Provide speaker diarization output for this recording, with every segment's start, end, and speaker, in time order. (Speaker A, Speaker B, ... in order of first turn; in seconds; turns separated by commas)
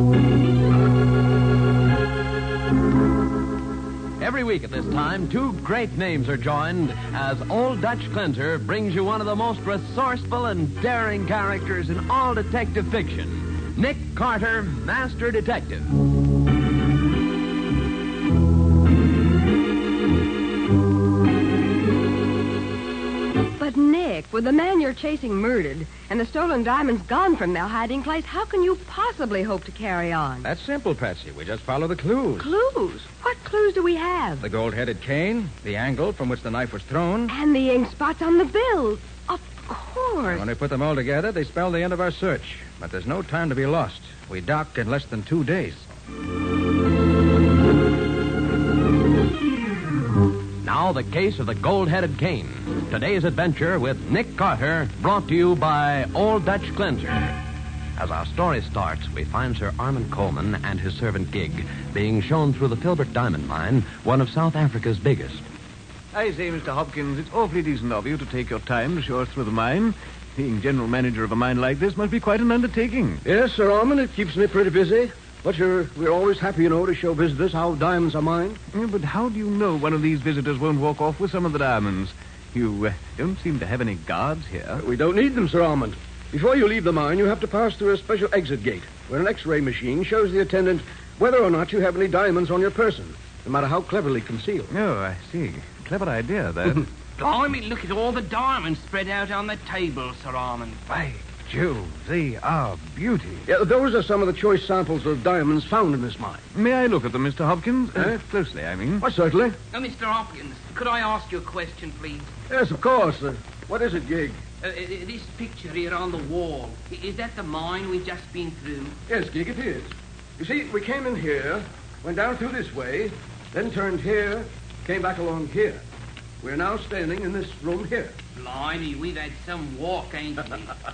Speaker A: 4.2-15.9, Speaker B: 23.6-30.5, Speaker C: 30.4-32.5, Speaker B: 32.4-34.4, Speaker C: 34.4-37.3, Speaker B: 37.3-40.5, Speaker C: 40.3-45.9, Speaker A: 50.6-57.3, Speaker A: 58.0-65.5, Speaker D: 66.1-73.2, Speaker E: 73.2-78.6, Speaker D: 78.7-84.8, Speaker E: 84.8-94.7, Speaker D: 94.7-96.9, Speaker F: 97.2-100.9, Speaker D: 100.9-103.5, Speaker E: 103.5-106.5, Speaker D: 106.5-109.0, Speaker E: 108.0-108.2, Speaker E: 109.0-109.6, Speaker F: 109.7-112.3, Speaker E: 112.5-114.4, Speaker F: 114.6-119.0, Speaker E: 119.1-125.8, Speaker E: 126.4-128.2, Speaker F: 128.3-130.8